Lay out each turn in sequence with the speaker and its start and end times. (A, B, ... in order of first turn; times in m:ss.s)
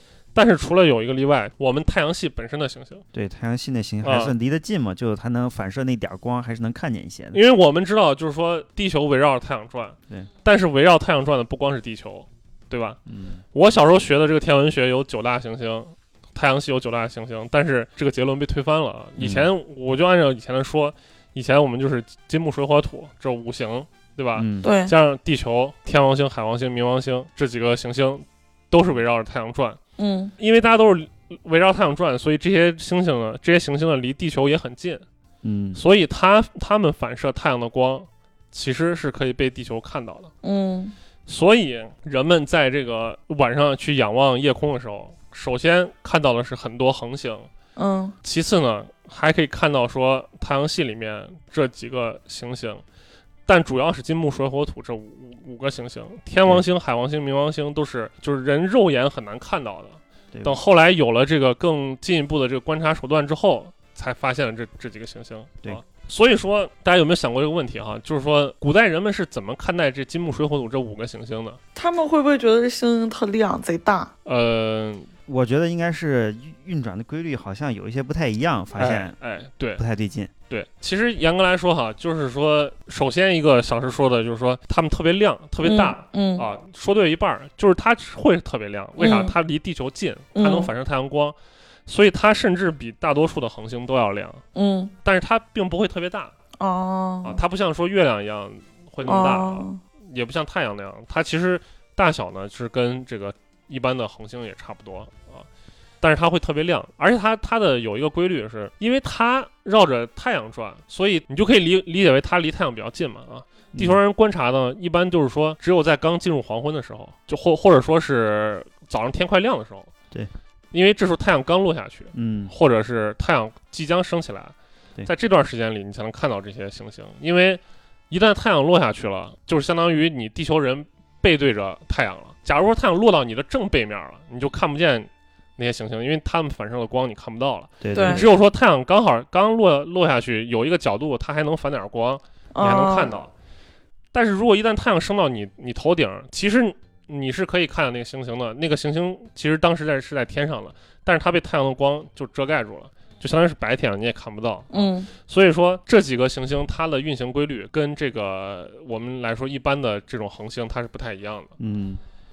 0:00.3-0:03.0 A
0:03.1-0:07.4 B
0:04.0-0:04.3 A
0:07.3-0:13.0 A
0:13.1-0:13.4 B
0:13.5-0:29.8 A
0:19.2-0:19.5 B
0:24.3-0:24.7 B
0:24.6-0:24.9 C
0:30.0-0:30.3 C
0:30.4-0:35.0 A
0:35.4-0:35.8 B
0:35.7-0:40.3 A
0:40.4-0:40.9 C
0:41.2-0:47.5 A
0:47.8-0:48.1 C
0:48.2-0:52.8 A
0:53.5-1:11.6 A
1:00.3-1:00.6 B
1:11.7-1:14.1 C
1:14.2-1:15.1 A
1:15.3-1:19.1 B
1:18.8-1:19.8 A
1:19.8-1:20.3 B
1:20.5-1:31.4 A
1:25.6-1:26.4 C
1:29.0-1:29.3 C
1:30.3-1:30.7 C
1:31.9-1:34.4 A
1:34.5-1:34.9 C
1:35.0-1:36.3 A
1:36.6-1:37.4 C
1:37.2-1:45.5 A
1:39.0-1:39.8 C
1:46.0-1:59.9 A
1:53.7-1:54.0 B
2:00.7-2:04.5 A
2:02.1-2:02.5 B
2:05.0-2:23.3 A
2:17.8-2:18.3 B
2:17.9-2:18.2 C
2:22.5-2:23.1 C
2:24.1-2:41.5 A
2:34.7-2:35.1 C
2:41.6-2:42.0 B